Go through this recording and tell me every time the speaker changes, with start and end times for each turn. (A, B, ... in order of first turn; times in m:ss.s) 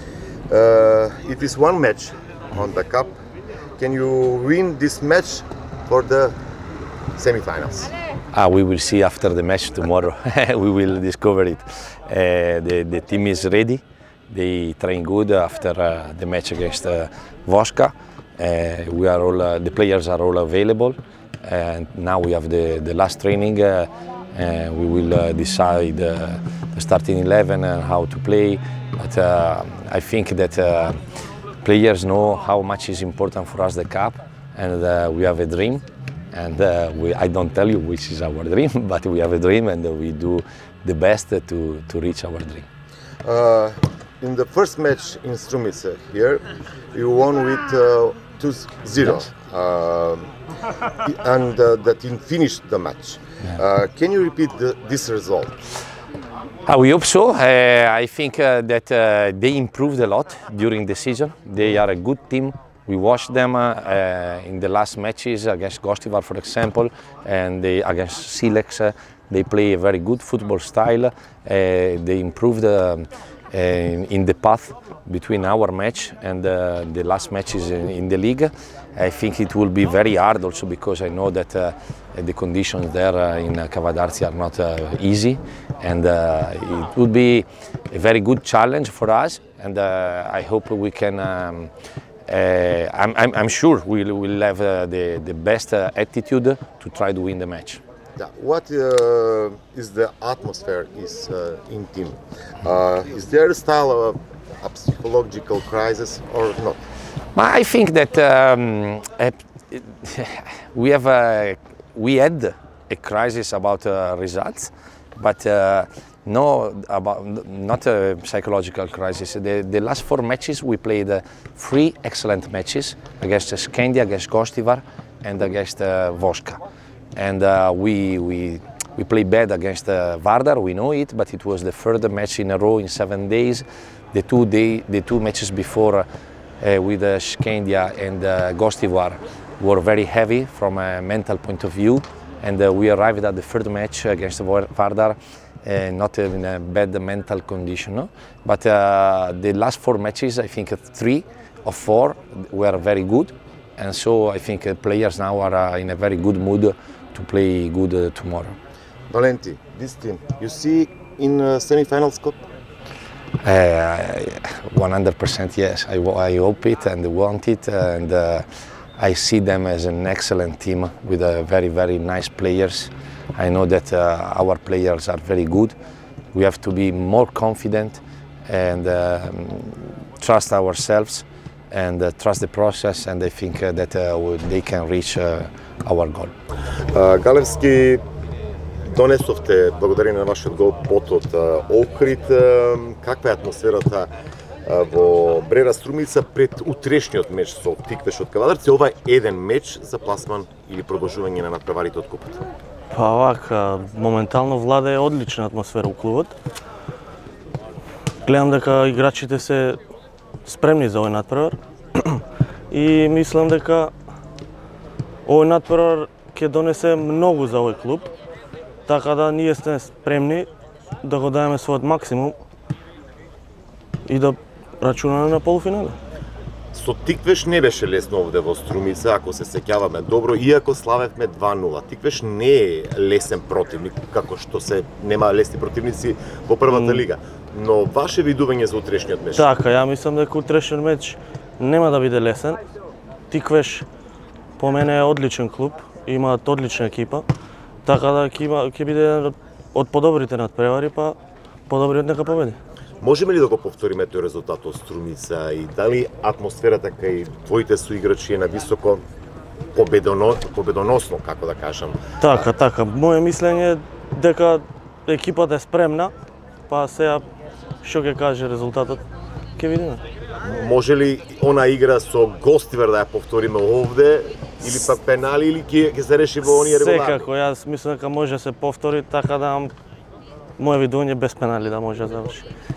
0:00.5-0:03.1 A
0:03.8-0:06.3 A
0:07.1-0:07.9 A
0:08.3-0:31.0 B
0:31.6-0:42.7 B
0:43.2-0:50.3 A
0:51.0-0:55.5 A
0:56.6-1:31.7 B
1:32.3-1:37.8 B
1:38.2-1:46.8 A
1:47.3-2:06.6 B
2:07.1-2:16.0 B
2:16.6-2:38.6 B
2:39.1-2:42.4 A
2:43.4-2:48.4 B
2:49.0-2:55.7 B
2:56.3-3:06.3 B
3:06.9-3:08.0 A
3:08.8-3:14.1 A
3:14.6-3:22.4 A
3:22.9-3:26.3 C
3:28.2-3:29.8 C
3:30.4-3:33.9 C
3:35.2-3:38.1 C
3:38.9-3:40.5 C
3:41.0-3:42.4 C
3:44.0-3:46.0 C
3:46.7-3:59.5 A
3:56.7-3:57.0 C
3:59.3-4:02.6 C
4:03.3-4:03.8 C
4:04.6-4:07.2 C
4:07.8-4:11.2 C
4:11.7-4:12.6 C
4:13.0-4:19.0 A
4:19.7-4:22.5 A
4:22.2-4:26.1 C
4:26.7-4:27.2 C
4:27.8-4:29.0 C
4:29.6-4:30.0 C
4:30.4-4:37.3 A
4:36.4-4:39.7 C
4:40.6-4:42.4 C